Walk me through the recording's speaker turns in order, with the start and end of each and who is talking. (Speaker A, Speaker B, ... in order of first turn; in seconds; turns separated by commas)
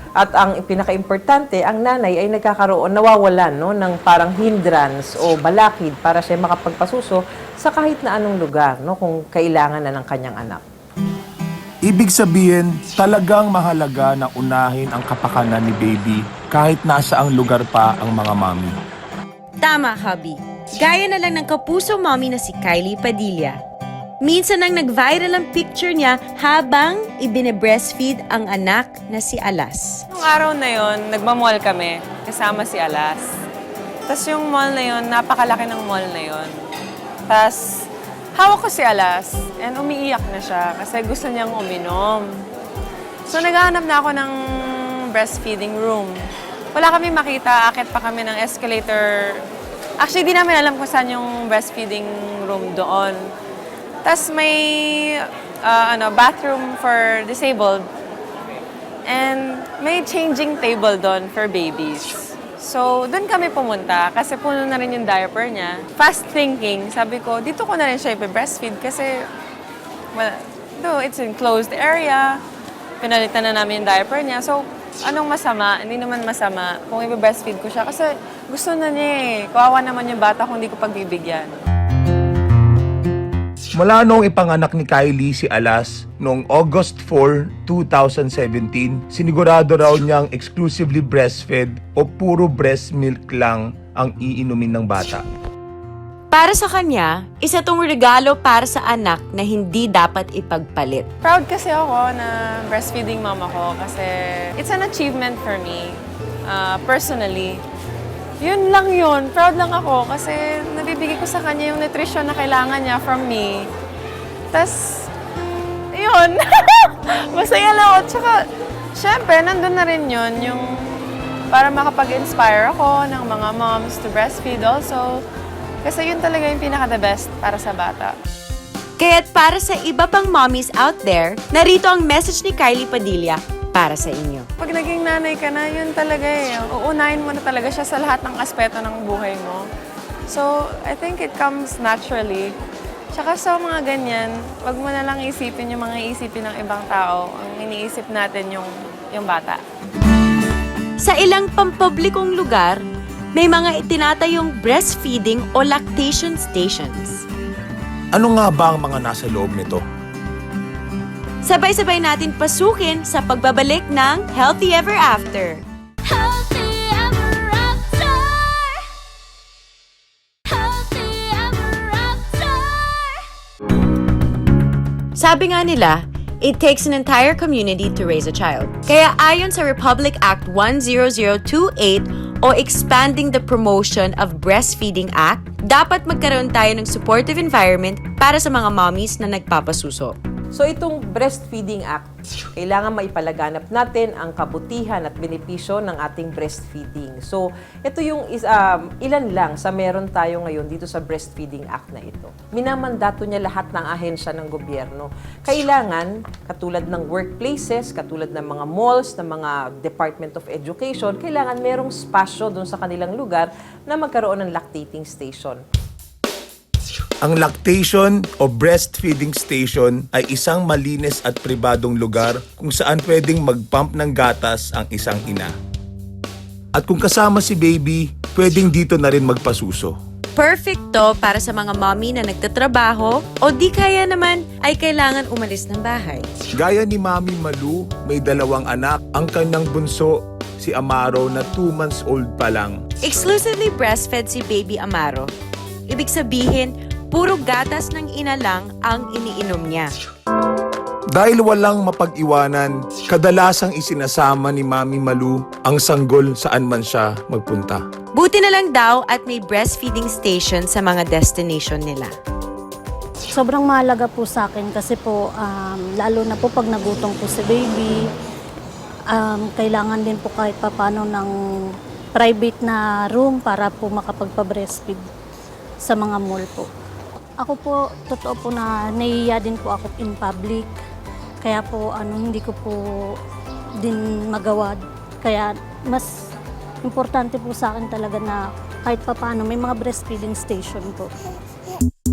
Speaker A: 0.2-10.6, Speaker B: 11.8-18.8, Speaker C: 19.6-23.6, Speaker C: 24.2-30.0, Speaker D: 30.1-33.3, Speaker D: 34.1-36.5, Speaker D: 37.3-37.7, Speaker D: 38.4-42.3, Speaker D: 43.3-44.4, Speaker D: 45.1-46.2, Speaker D: 46.7-49.3, Speaker D: 50.0-53.3, Speaker D: 54.0-57.9, Speaker D: 59.1-69.2, Speaker D: 70.1-72.4, Speaker D: 73.0-81.5, Speaker B: 83.7-95.2, Speaker C: 96.3-101.1, Speaker D: 101.2-107.6, Speaker D: 108.4-113.7, Speaker D: 114.5-115.1, Speaker D: 115.9-118.4, Speaker D: 119.0-125.2, Speaker D: 125.8-128.2, Speaker C: 129.0-134.5, Speaker D: 134.6-139.7, Speaker D: 140.3-142.5, Speaker D: 143.1-149.6, Speaker C: 151.0-152.8, Speaker C: 153.3-157.2, Speaker B: 158.1-159.8, Speaker C: 161.4-165.6, Speaker E: 166.1-168.9, Speaker E: 170.5-173.2, Speaker C: 175.2-190.2, Speaker A: 190.5-215.6, Speaker B: 217.2-225.5, Speaker B: 226.7-230.0, Speaker C: 230.4-236.3, Speaker B: 236.6-242.8, Speaker C: 243.0-245.3, Speaker C: 245.9-249.9, Speaker B: 251.1-257.8, Speaker C: 258.1-262.1, Speaker F: 263.3-267.9, Speaker F: 269.1-271.3, Speaker F: 272.2-275.1, Speaker F: 275.9-276.7, Speaker F: 277.4-280.7, Speaker F: 281.4-282.8, Speaker F: 283.8-286.1, Speaker F: 286.8-291.1